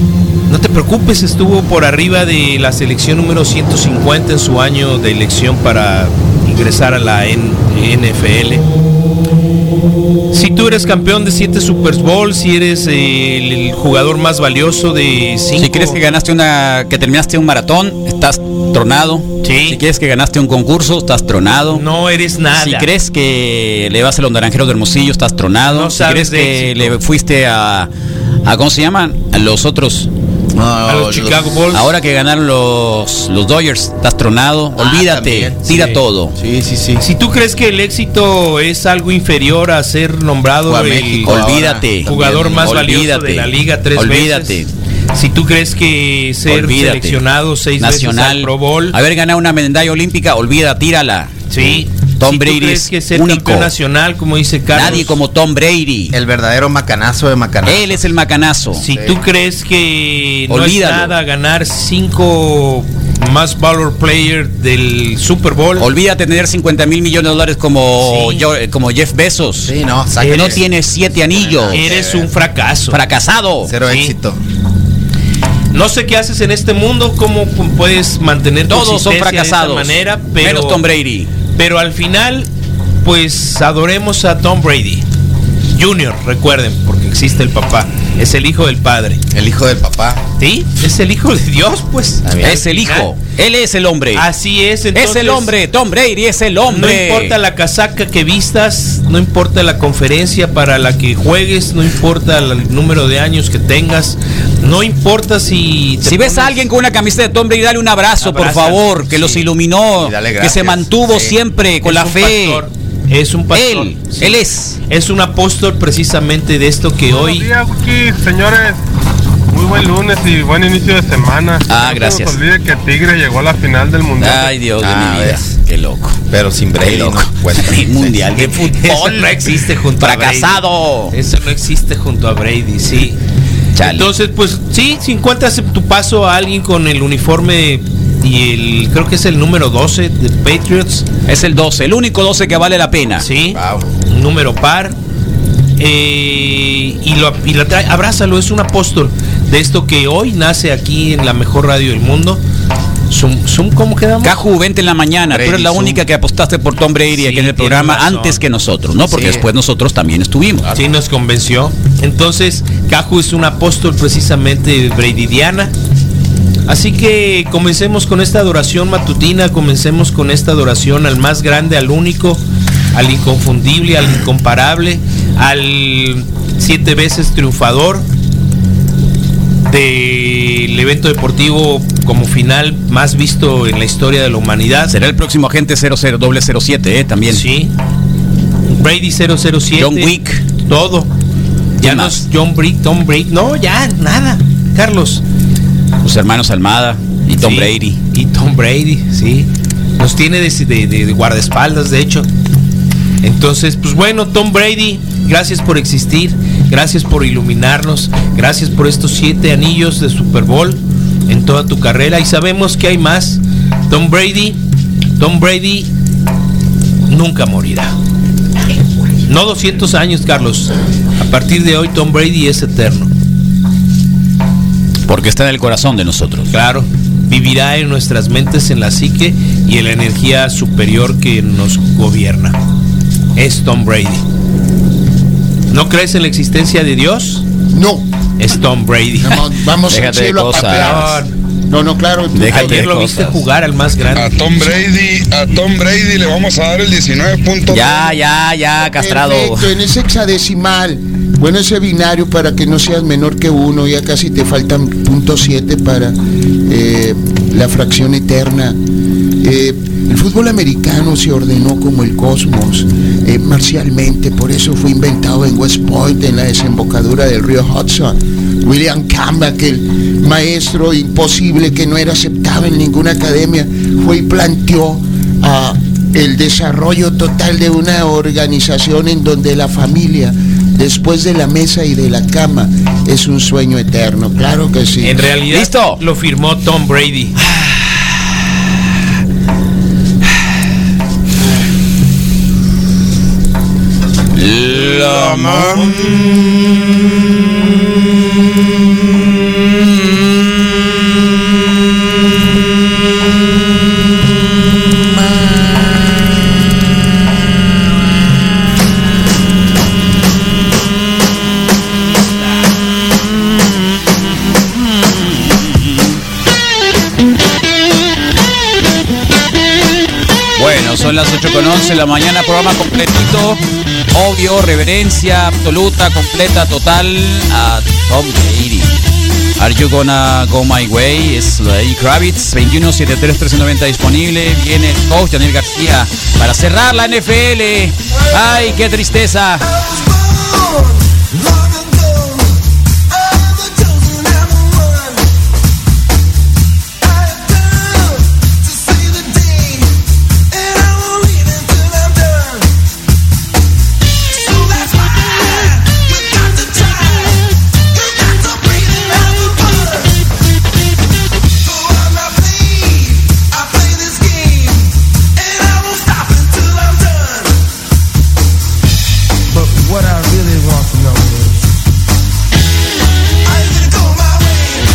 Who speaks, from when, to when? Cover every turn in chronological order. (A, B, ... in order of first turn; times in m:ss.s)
0:00.5-0:08.6 A
0:10.3-0:16.0 A
0:15.6-0:21.8 B
0:19.4-0:19.8 A
0:21.7-0:22.9 A
0:22.6-0:27.9 B
0:25.6-0:27.0 A
0:28.4-0:30.1 B
0:30.5-0:31.4 C
0:30.9-0:31.9 A
0:31.7-0:36.4 B
0:34.8-0:37.0 C
0:35.7-0:36.0 A
0:37.0-0:41.4 A
0:40.7-0:42.7 C
0:41.2-0:44.7 B
0:42.0-0:49.0 A
0:46.5-0:47.2 B
0:47.8-0:51.4 B
0:51.5-0:55.2 A
0:52.2-0:53.7 B
0:54.7-0:56.1 B
0:56.1-0:58.1 C
0:57.6-0:58.8 B
0:58.8-1:05.9 A
0:58.9-0:59.2 C
1:00.5-1:01.2 B
1:05.8-1:11.8 B
1:08.0-1:08.5 A
1:09.6-1:10.6 C
1:10.2-1:10.6 A
1:11.3-1:12.3 C
1:11.7-1:13.0 A
1:12.9-1:13.7 B
1:13.6-1:14.4 C
1:13.9-1:14.1 A
1:15.7-1:20.8 A
1:18.7-1:21.3 B
1:21.5-1:22.5 A
1:23.0-1:25.0 A
1:25.7-1:29.2 A
1:29.3-1:30.2 C
1:30.4-1:33.1 A
1:32.2-1:32.6 C
1:32.4-1:34.2 B
1:34.1-1:35.6 A
1:34.9-1:37.4 B
1:36.7-1:46.6 A
1:46.0-1:52.6 B
1:48.2-1:49.5 A
1:49.9-1:51.4 C
1:51.8-1:57.5 A
1:53.5-1:54.8 B
1:57.1-1:58.8 D
1:59.5-2:04.6 D
2:01.7-2:02.4 B
2:04.2-2:06.2 B
2:04.8-2:05.5 C
2:06.3-2:08.3 C
2:06.8-2:11.2 B
2:08.4-2:13.2 A
2:13.8-2:14.1 B
2:13.8-2:21.0 A
2:21.3-2:23.3 B
2:23.2-2:25.0 A
2:23.5-2:23.9 C
2:25.8-2:32.4 A
2:33.1-2:34.4 A
2:34.2-2:40.7 B
2:35.3-2:36.0 C
2:37.1-2:38.4 A
2:39.0-2:39.5 C
2:40.8-2:45.7 A
2:46.7-2:52.4 A
2:52.9-2:58.1 A
2:59.7-3:04.9 A
3:04.9-3:07.4 B
3:07.3-3:07.7 A
3:08.6-3:10.1 A
3:09.8-3:10.4 B
3:10.6-3:11.1 A
3:11.8-3:15.2 A
3:11.8-3:12.2 B
3:16.0-3:18.0 B
3:17.4-3:19.5 A
3:20.0-3:22.3 A
3:23.2-3:34.6 A
3:35.2-3:35.9 A
3:37.1-3:37.9 A
3:39.3-3:43.1 A
3:45.1-3:46.5 B
3:46.5-3:52.6 A
3:53.4-3:54.2 A
3:55.7-3:57.4 A
3:57.7-3:58.1 E
3:58.4-3:59.5 A
3:59.2-4:02.9 E
3:59.9-4:01.2 B
4:00.5-4:01.3 A
4:02.3-4:03.4 B
4:02.5-4:04.8 A
4:04.1-4:08.0 F
4:07.7-4:09.7 B
4:08.8-4:18.8 E
4:19.4-4:45.2 E
4:45.0-4:47.4 A
4:45.5-4:46.0 B
4:47.5-4:47.8 B
4:54.3-4:56.2 B
5:20.6-5:23.6 B
5:24.1-5:29.0 B
5:29.6-5:39.7 B
6:10.1-6:10.6 E